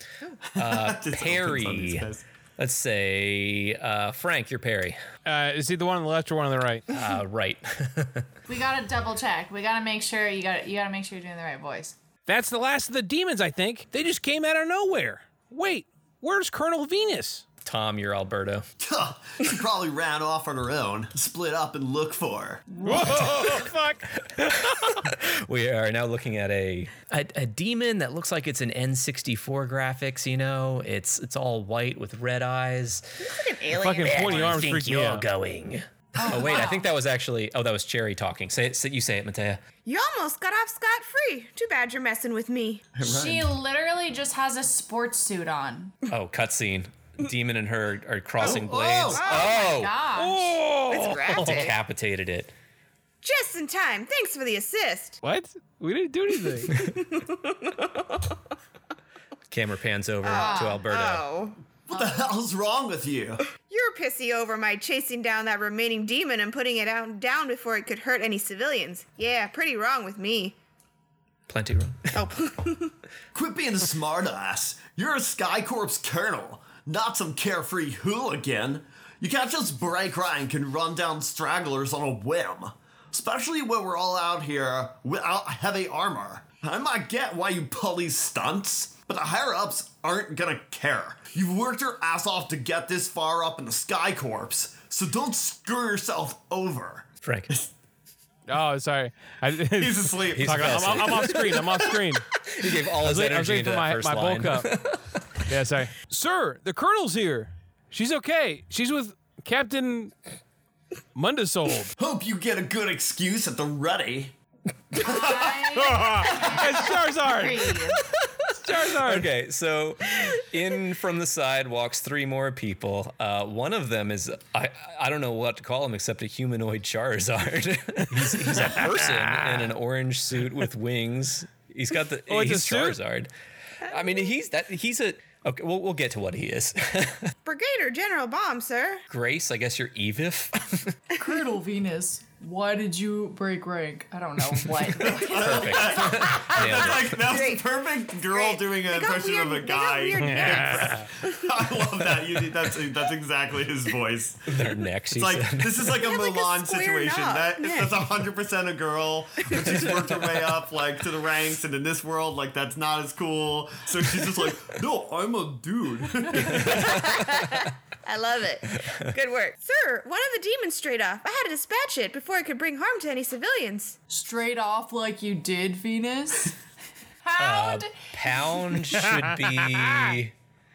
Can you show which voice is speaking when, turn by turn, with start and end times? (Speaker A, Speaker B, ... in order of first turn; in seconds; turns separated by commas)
Speaker A: 0.5-2.2, Speaker B: 0.5-5.0, Speaker C: 5.2-6.8, Speaker B: 6.9-8.3, Speaker D: 8.5-11.9, Speaker C: 12.2-17.4, Speaker B: 17.6-18.7, Speaker A: 18.8-22.9, Speaker C: 22.8-24.9, Speaker B: 22.9-23.7, Speaker B: 24.2-33.4, Speaker E: 33.2-34.6, Speaker C: 33.8-35.2, Speaker B: 34.0-39.6, Speaker D: 36.2-36.8, Speaker E: 36.5-36.7, Speaker E: 39.8-42.9, Speaker A: 42.9-43.5, Speaker D: 43.0-45.9, Speaker B: 46.1-50.0, Speaker A: 48.4-49.2, Speaker E: 49.1-49.7, Speaker D: 49.2-50.5, Speaker C: 50.1-51.7, Speaker E: 50.9-51.8, Speaker B: 51.3-52.5, Speaker E: 53.2-55.2, Speaker C: 55.2-56.7, Speaker E: 56.6-58.4, Speaker B: 59.5-61.2, Speaker E: 60.2-61.6, Speaker D: 60.3-60.8, Speaker A: 61.9-63.4, Speaker D: 61.9-62.2, Speaker E: 63.6-70.5, Speaker B: 71.5-72.2, Speaker E: 72.1-72.9, Speaker A: 73.3-97.7, Speaker B: 97.2-97.5, Speaker C: 98.5-102.3, Speaker A: 99.8-101.4, Speaker B: 100.3-101.8, Speaker B: 102.5-105.1, Speaker C: 103.0-104.7, Speaker C: 105.5-110.1, Speaker C: 111.1-111.9, Speaker A: 112.0-114.3, Speaker A: 114.9-116.5, Speaker D: 115.0-118.0, Speaker C: 115.7-117.8, Speaker C: 118.5-119.3, Speaker B: 119.0-133.3, Speaker C: 128.5-129.6, Speaker C: 132.3-133.0, Speaker B: 133.8-137.3, Speaker E: 137.4-139.0, Speaker B: 139.1-141.0, Speaker D: 141.2-145.8, Speaker A: 144.9-154.5, Speaker B: 145.3-147.3, Speaker E: 146.0-147.6, Speaker E: 148.3-151.4, Speaker C: 150.2-151.0, Speaker B: 154.5-156.0, Speaker A: 155.1-167.1, Speaker E: 156.0-158.1, Speaker B: 166.6-167.2, Speaker E: 166.6-174.0, Speaker D: 174.1-176.6, Speaker D: 177.2-178.5, Speaker B: 177.4-180.3